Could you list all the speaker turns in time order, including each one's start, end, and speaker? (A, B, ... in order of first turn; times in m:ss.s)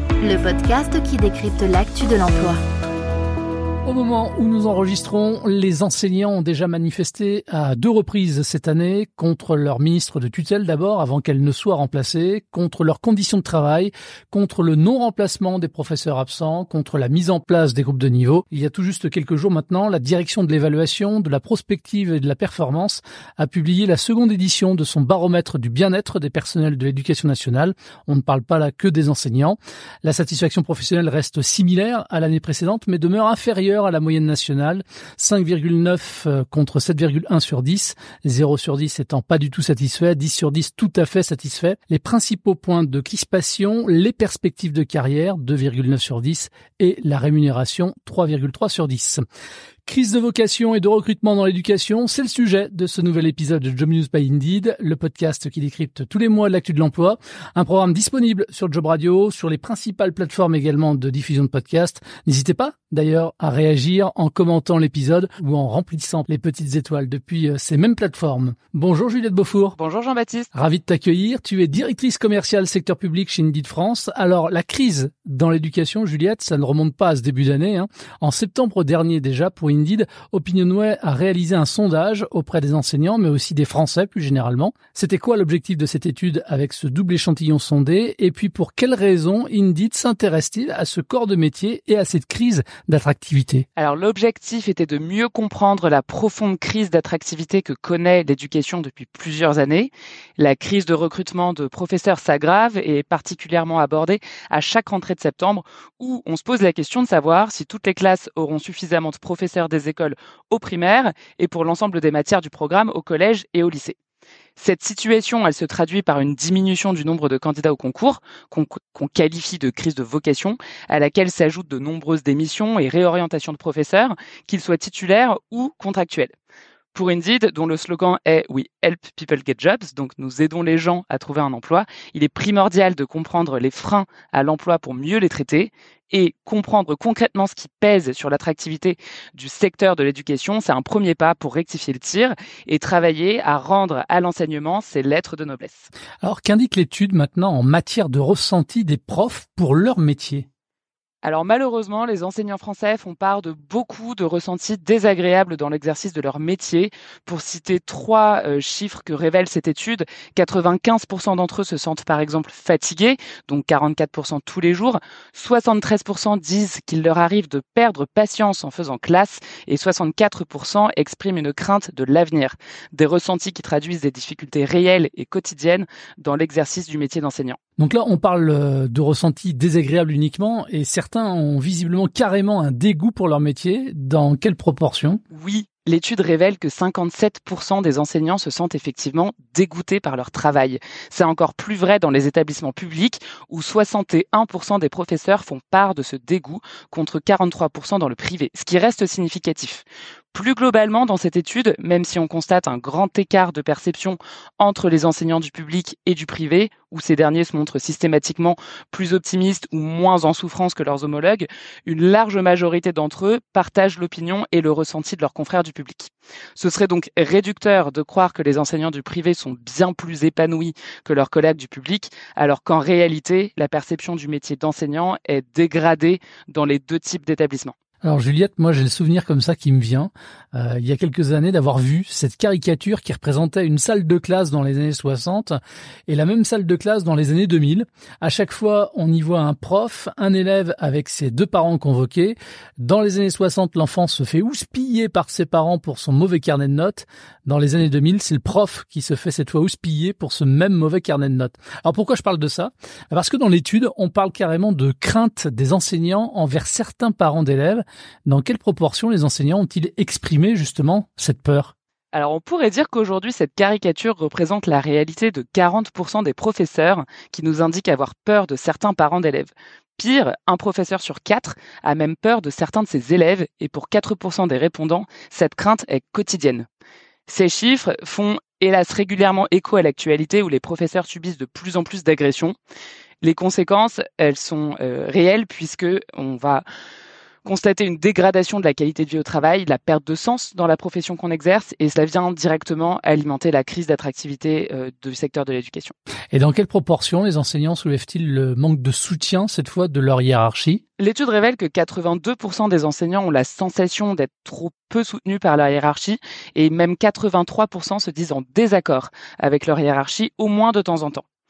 0:00.2-0:02.6 A
0:03.8-0:49.2 B
0:49.9-1:09.8 B
1:09.8-1:10.5 C
1:10.5-1:33.7 B
1:33.8-1:54.0 C
1:54.6-2:06.3 C
2:06.9-2:25.9 C
2:26.2-2:30.5 B
2:31.2-2:57.6 C
2:57.8-3:05.2 B
3:05.3-3:47.8 C
3:48.0-4:21.7 B
4:22.1-4:36.7 C
4:37.3-4:42.6 C
4:43.2-4:46.6 C
4:47.4-4:55.9 C
4:56.3-5:00.8 B
5:01.0-5:11.2 C